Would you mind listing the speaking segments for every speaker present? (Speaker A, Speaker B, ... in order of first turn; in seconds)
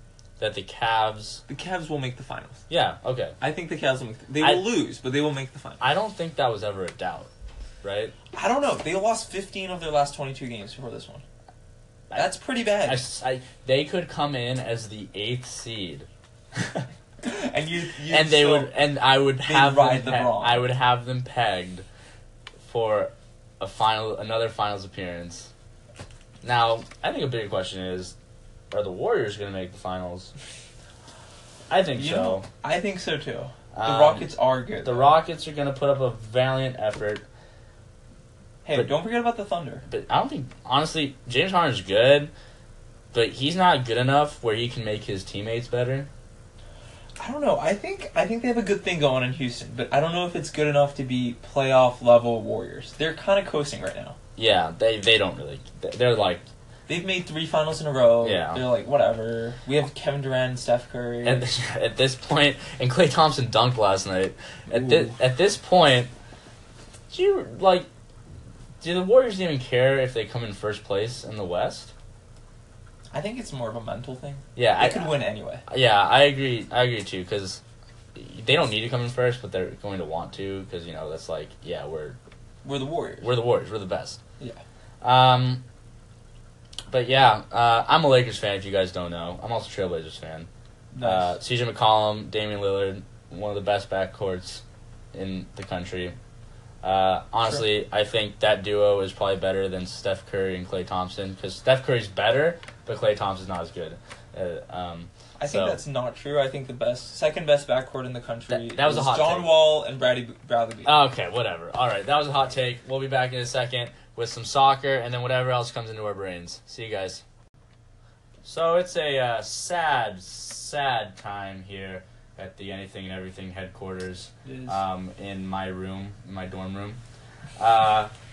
Speaker A: 0.4-1.4, 2.7-3.4, 4.4-4.7, 5.8-7.3, 7.8-8.1, 12.1-16.9, 18.1-21.9, 22.6-25.5, 26.4-28.1, 28.7-30.3, 31.7-32.5, 33.7-37.2, 39.9-42.3, 43.1-46.1, 54.4-56.5, 58.2-58.6, 61.2-66.1, 67.1-67.9, 68.8-71.9, 74.6-75.2, 75.7-77.6, 78.2-82.2, 83.2-84.2, 85.0-85.6, 86.9-90.5, 91.0-94.6, 95.1-96.2, 96.8-105.8, 108.5-109.6, 110.8-117.2, 118.4-127.0, 127.6-128.1
Speaker B: 1.5-2.6, 3.4-5.9, 8.3-11.2, 12.1-13.1, 17.2-18.7, 19.4-20.7, 31.9-35.2, 38.6-39.9, 47.2-54.2, 56.9-61.5, 64.7-65.1, 73.1-75.6, 82.6-83.3, 90.9-91.4, 105.4-111.0, 124.5-124.8